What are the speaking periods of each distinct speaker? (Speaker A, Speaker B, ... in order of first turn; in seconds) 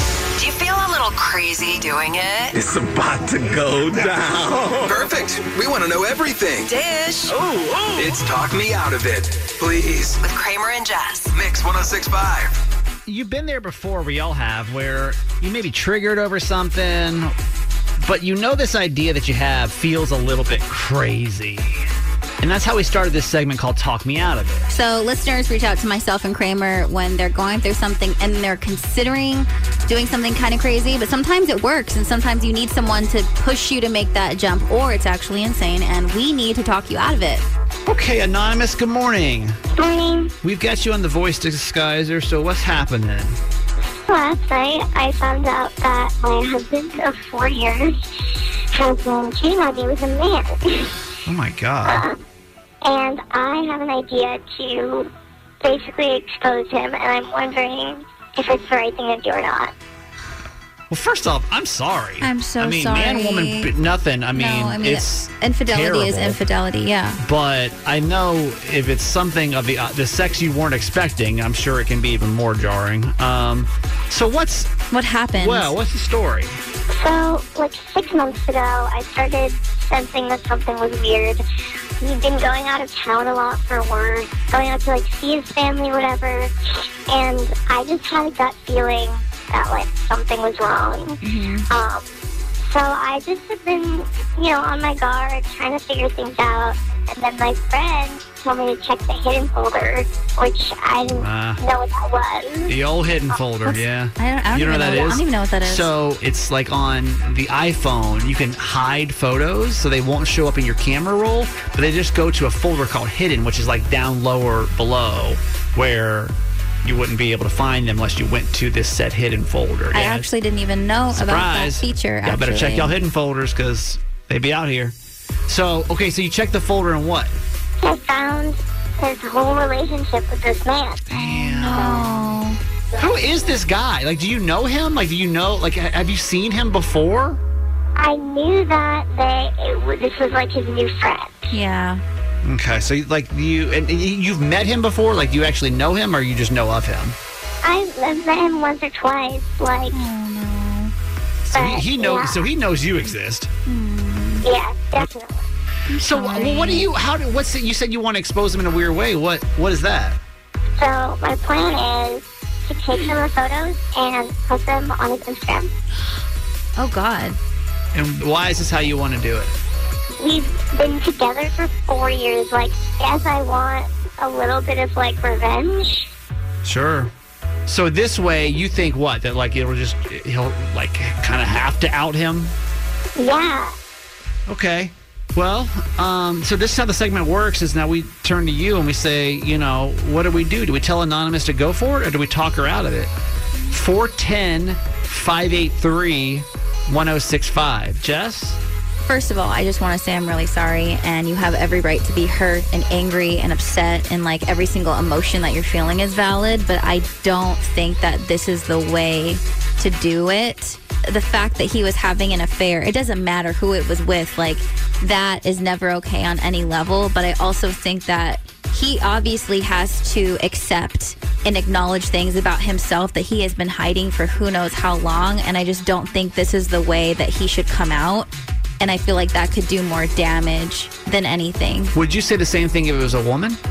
Speaker A: 0.4-2.6, 6.7-7.8, 10.2-11.3
Speaker B: 2.5-5.1
Speaker C: 4.9-6.8, 7.9-10.2, 11.3-12.6
Speaker D: 13.1-17.3, 18.0-21.9, 22.4-24.6, 37.9-39.6, 40.4-43.4, 51.3-52.0, 60.9-66.4, 67.2-74.7, 75.4-76.6, 101.1-101.6, 102.7-120.3, 121.1-125.0, 125.5-127.4, 131.1-132.3, 133.0-137.4, 142.4-147.2, 151.4-153.5, 156.0-160.2, 167.9-169.6, 176.6-177.1, 177.7-182.6, 184.5-193.1, 193.7-198.6, 231.9-233.6
Speaker E: 24.7-37.5, 62.2-63.7, 64.3-67.2, 74.9-75.8, 91.2-91.7, 103.7-105.9, 119.9-122.9, 131.2-132.6, 141.5-142.0, 149.9-150.9, 153.7-154.4, 155.9-156.9, 166.8-167.4, 199.1-231.9
Speaker F: 39.8-40.3, 44.1-50.9, 51.8-52.2, 52.8-55.1, 55.6-59.7, 76.9-81.4, 82.0-92.1, 92.6-102.8, 127.8-131.1, 138.0-141.5, 147.6-150.0, 151.5-152.5, 154.4-155.4, 160.8-165.7, 170.2-176.1, 183.2-183.8